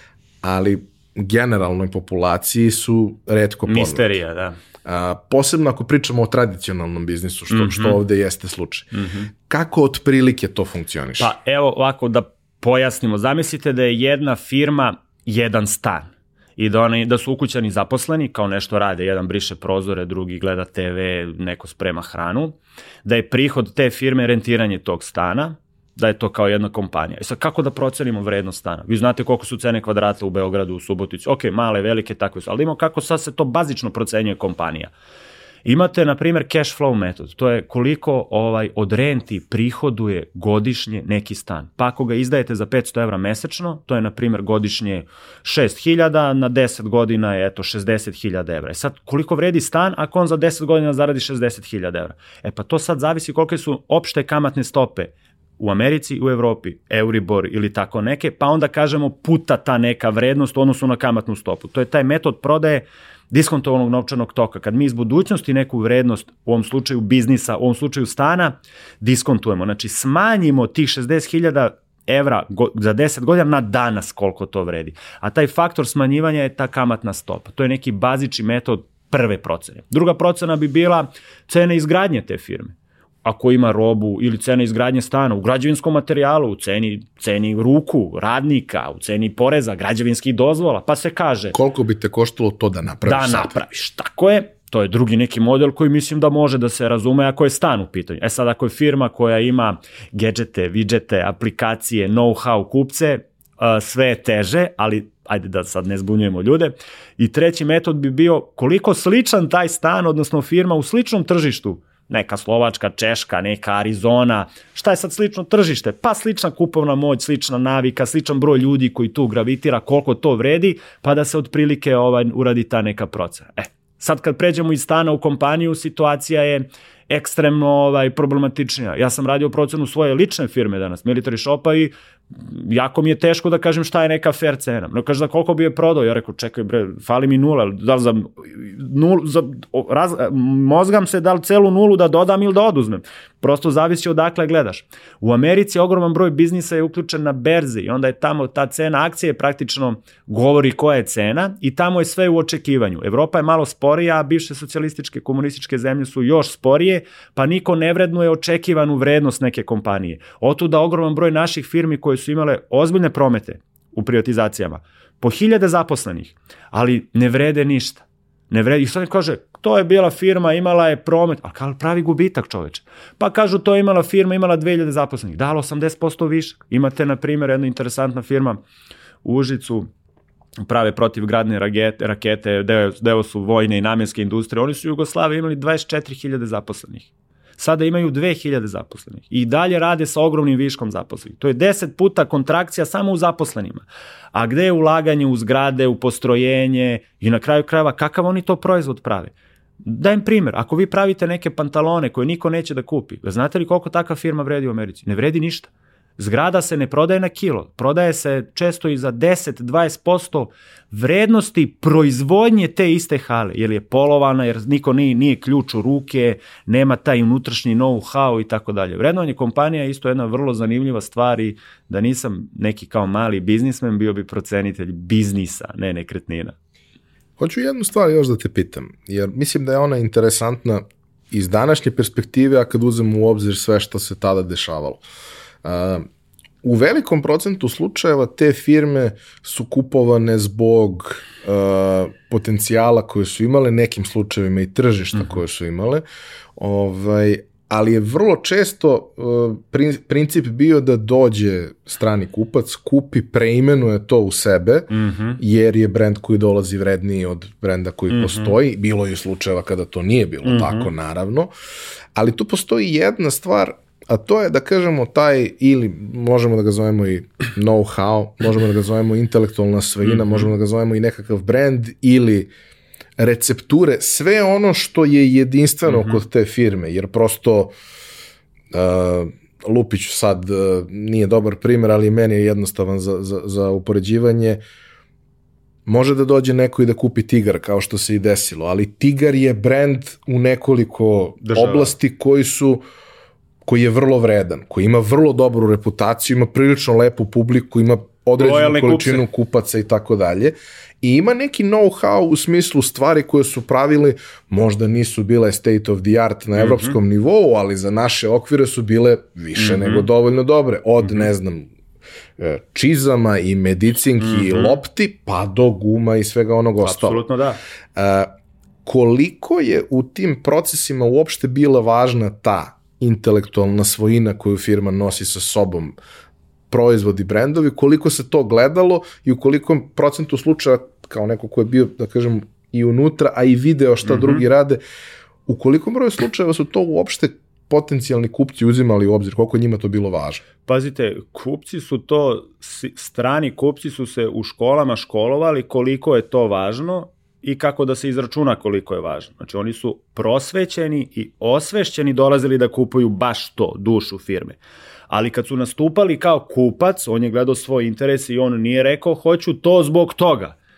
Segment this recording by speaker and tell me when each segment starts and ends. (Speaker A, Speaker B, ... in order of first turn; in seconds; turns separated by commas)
Speaker A: 0.4-4.1, Speaker B: 3.7-4.5, Speaker A: 4.8-11.3, Speaker B: 7.5-8.0, Speaker B: 8.9-9.3, Speaker B: 11.2-34.9, Speaker B: 35.6-91.5, Speaker A: 91.5-93.5, Speaker B: 93.0-178.6, Speaker B: 179.2-179.9, Speaker B: 180.6-199.3, Speaker B: 199.8-226.5, Speaker A: 227.4-235.0, Speaker A: 235.6-236.1, Speaker A: 236.6-246.0, Speaker A: 246.6-261.5, Speaker B: 254.9-255.4, Speaker B: 258.1-258.5, Speaker B: 260.4-260.9, Speaker A: 262.1-272.5, Speaker B: 270.1-270.5, Speaker A: 273.2-277.7, Speaker B: 275.9-276.2, Speaker A: 278.7-284.6, Speaker A: 285.9-292.8, Speaker B: 291.4-291.9, Speaker A: 293.6-311.7, Speaker B: 298.4-299.2, Speaker B: 306.6-307.0, Speaker B: 309.6-310.1, Speaker A: 312.4-317.2, Speaker B: 314.2-314.8, Speaker B: 316.8-317.6, Speaker A: 317.9-318.3, Speaker A: 318.8-326.0, Speaker A: 326.7-334.8, Speaker B: 334.1-334.4, Speaker A: 335.5-340.4, Speaker B: 340.6-354.6, Speaker B: 355.1-360.6